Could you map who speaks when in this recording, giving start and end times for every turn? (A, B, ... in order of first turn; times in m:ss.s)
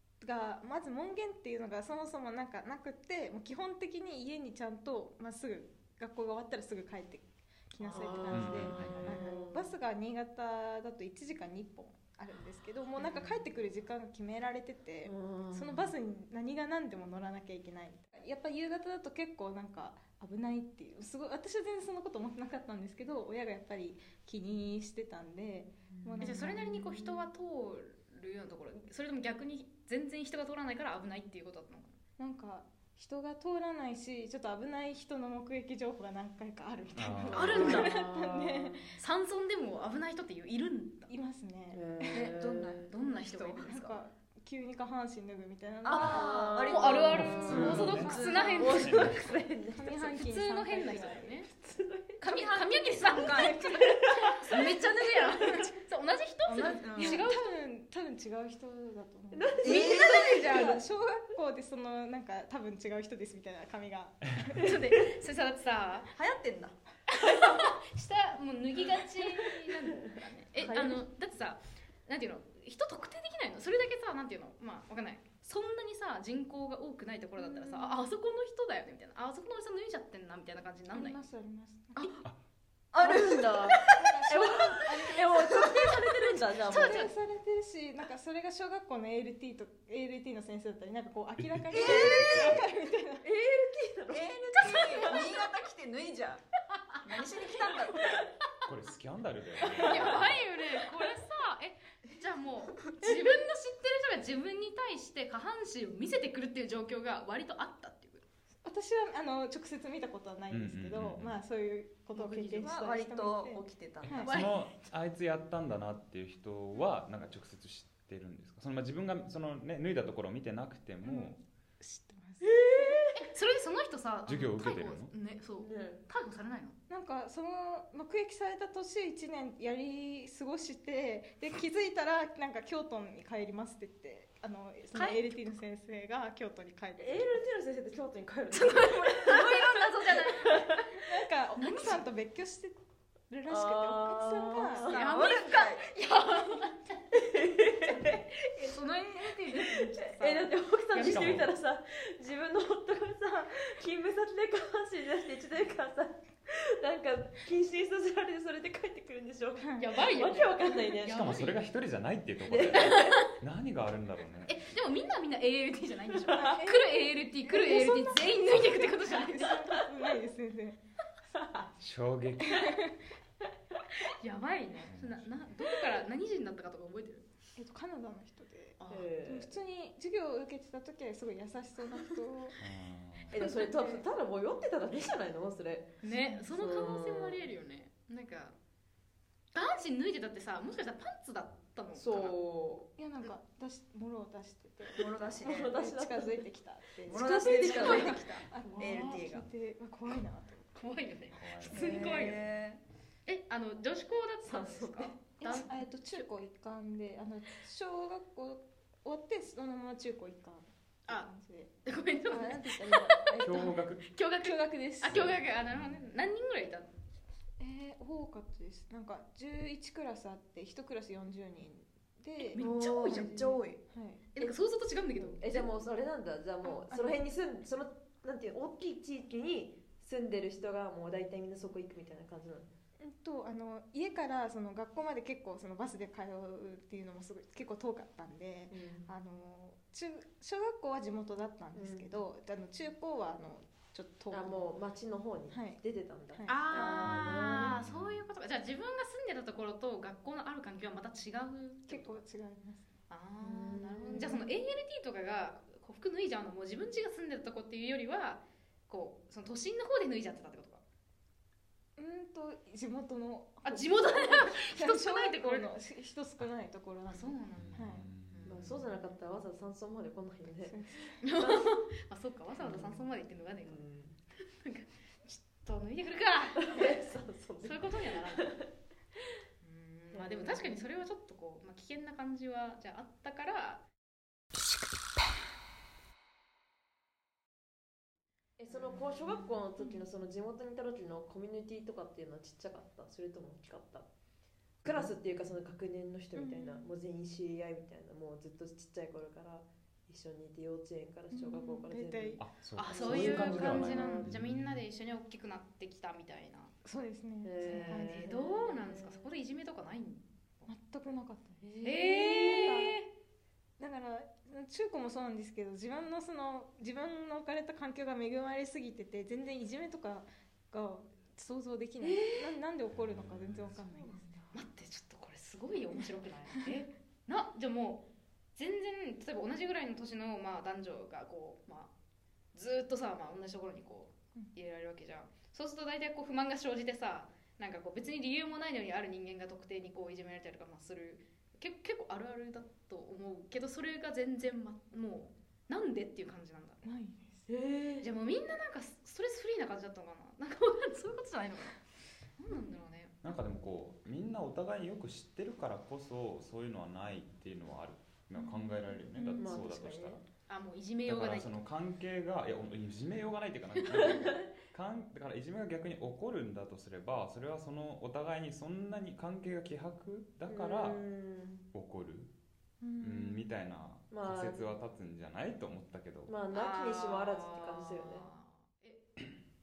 0:00.2-0:26.5 A
0:07.8-0:09.7 B
0:07.8-0:09.0 C
0:08.3-0:09.2 D
0:13.0-0:13.3 B
0:15.0-0:15.9 B
0:25.9-0:27.3 B
0:26.2-0:32.0 C
0:32.2-0:38.8 A
0:36.9-0:37.8 D
0:37.3-0:38.0 C
0:37.4-0:38.8 B
0:39.0-0:41.1 C
0:41.1-0:42.3 A
0:41.7-0:42.9 B
0:42.1-0:43.9 E
0:42.9-0:43.8 C
0:43.6-0:46.4 A
0:45.8-0:48.8 E
0:45.9-0:50.0 B
0:46.6-0:49.2 C
0:47.1-0:48.1 D
0:47.6-0:48.8 A
0:48.7-0:49.2 D
0:49.7-0:51.4 A
0:49.9-0:51.5 C
0:51.5-0:52.5 B
0:52.2-0:57.5 C
0:52.3-0:53.5 E
0:53.1-0:54.7 A
0:53.3-0:55.7 B
0:56.4-0:57.2 E
0:56.9-1:04.6 A
0:59.3-1:00.8 B
0:59.6-1:00.6 E
0:59.6-1:00.8 C
1:04.6-1:06.1 C
1:04.6-1:04.9 B
1:06.1-1:06.8 E
1:07.1-1:21.2 C
1:10.6-1:11.0 B
1:17.4-1:17.9 B
1:20.9-1:22.2 A
1:22.9-1:26.0 E
1:23.0-1:27.1 B
1:24.0-1:25.2 A
1:26.7-1:27.1 C
1:26.7-1:33.2 A
1:31.4-1:32.6 D
1:31.7-1:32.6 E
1:33.2-1:35.3 B
1:34.1-1:36.4 E
1:34.7-1:35.2 C
1:37.0-1:38.1 E
1:38.6-1:40.4 D
1:39.8-1:48.2 C
1:48.6-1:54.3 A
1:50.5-1:51.4 D
1:52.1-1:54.3 E
1:54.1-1:54.7 C
1:54.2-2:01.4 D
2:01.0-2:03.0 A
2:02.4-2:03.3 B
2:03.1-2:06.8 C
2:04.3-2:05.1 D
2:05.6-2:06.0 B
2:06.9-2:17.4 A
2:14.9-2:15.3 C
2:17.0-2:21.0 B
2:18.5-2:20.7 C
2:19.2-2:19.7 E
2:20.9-2:22.8 A
2:21.5-2:22.0 C
2:23.3-2:25.0 A
2:23.5-2:25.0 B
2:24.8-2:27.0 C
2:24.8-2:25.9 E
2:27.1-2:28.3 B
2:28.5-2:31.4 C
2:29.5-2:41.4 B
2:31.0-2:31.5 D
2:39.6-2:39.9 A
2:39.8-2:41.6 C
2:41.1-2:44.6 D
2:42.4-2:43.3 B
2:42.8-2:43.1 C
2:44.5-2:49.6 C
2:46.3-2:46.6 B
2:46.3-2:50.8 A
2:51.4-2:51.7 B
2:51.8-2:52.8 D
2:52.6-2:52.9 A
2:54.2-2:57.3 C
2:54.9-2:55.4 D
2:57.6-3:02.6 A
2:58.8-2:59.1 C
2:58.9-2:59.5 B
3:02.6-3:03.4 D
3:03.3-3:06.0 B
3:03.3-3:04.0 A
3:06.0-3:08.6 C
3:06.1-3:06.4 A
3:06.5-3:07.5 B
3:09.5-3:12.4 C
3:11.9-3:12.9 B
3:13.0-3:20.8 A
3:15.0-3:15.7 E
3:15.3-3:16.4 B
3:17.1-3:18.2 B
3:17.1-3:19.5 E
3:17.7-3:18.2 C
3:20.8-3:22.4 C
3:21.3-3:21.9 D
3:21.7-3:22.8 E
3:23.3-3:26.2 C
3:24.4-3:25.6 B
3:25.4-3:31.7 A
3:31.8-3:36.9 C
3:32.3-3:33.8 A
3:33.4-3:34.0 D
3:34.4-3:35.3 A
3:35.1-3:36.0 D
3:37.6-3:44.2 A
3:42.5-3:43.3 C
3:42.6-3:43.8 E
3:44.3-3:45.7 C
3:45.2-3:52.7 B
3:46.6-3:47.2 A
3:53.0-4:04.7 A
3:58.7-3:59.1 B
4:01.7-4:02.1 B
4:04.3-4:07.8 B
4:05.5-4:05.8 A
4:06.3-4:07.7 A
4:06.5-4:12.2 C
4:07.8-4:08.2 D
4:11.9-4:12.9 A
4:13.1-4:20.8 C
4:13.4-4:14.5 B
4:22.0-4:28.1 A
4:23.6-4:25.7 C
4:27.1-4:28.9 C
4:27.5-4:28.8 D
4:28.4-4:31.8 B
4:30.6-4:31.2 A
4:31.2-4:33.8 C
4:32.6-4:33.0 B
4:33.6-4:34.2 B
4:34.5-4:38.5 C
4:36.6-4:38.6 B
4:39.6-4:43.8 C
4:40.1-4:40.8 B
4:48.6-4:54.1 B
4:48.8-4:49.4 C
4:54.8-5:04.3 B
4:54.8-4:55.1 D
4:56.3-4:56.9 A
5:01.3-5:02.4 A
5:02.4-5:04.8 D
5:02.8-5:06.7 C
5:06.8-5:08.3 A
5:07.4-5:09.3 B
5:07.6-5:10.7 C
5:10.7-5:12.9 A
5:11.6-5:12.8 B
5:11.8-5:13.0 C
5:13.8-5:24.5 A
5:22.0-5:22.5 B
5:22.9-5:23.8 D
5:24.0-5:24.5 B
5:24.5-5:31.9 C
5:32.5-5:46.8 C
5:46.8-5:47.4 A
5:47.5-5:48.1 B
5:48.0-5:51.8 C
5:52.4-5:53.3 C
5:53.2-6:00.2 D
5:58.4-5:59.6 A
5:59.4-6:00.2 B
6:00.5-6:01.5 C
6:01.1-6:11.0 D
6:03.8-6:04.1 C
6:04.0-6:04.5 B
6:10.5-6:11.6 B
6:11.7-6:12.3 D
6:12.8-6:13.5 A
6:13.0-6:16.3 D
6:14.1-6:14.7 B
6:16.3-6:18.3 B
6:16.5-6:19.0 C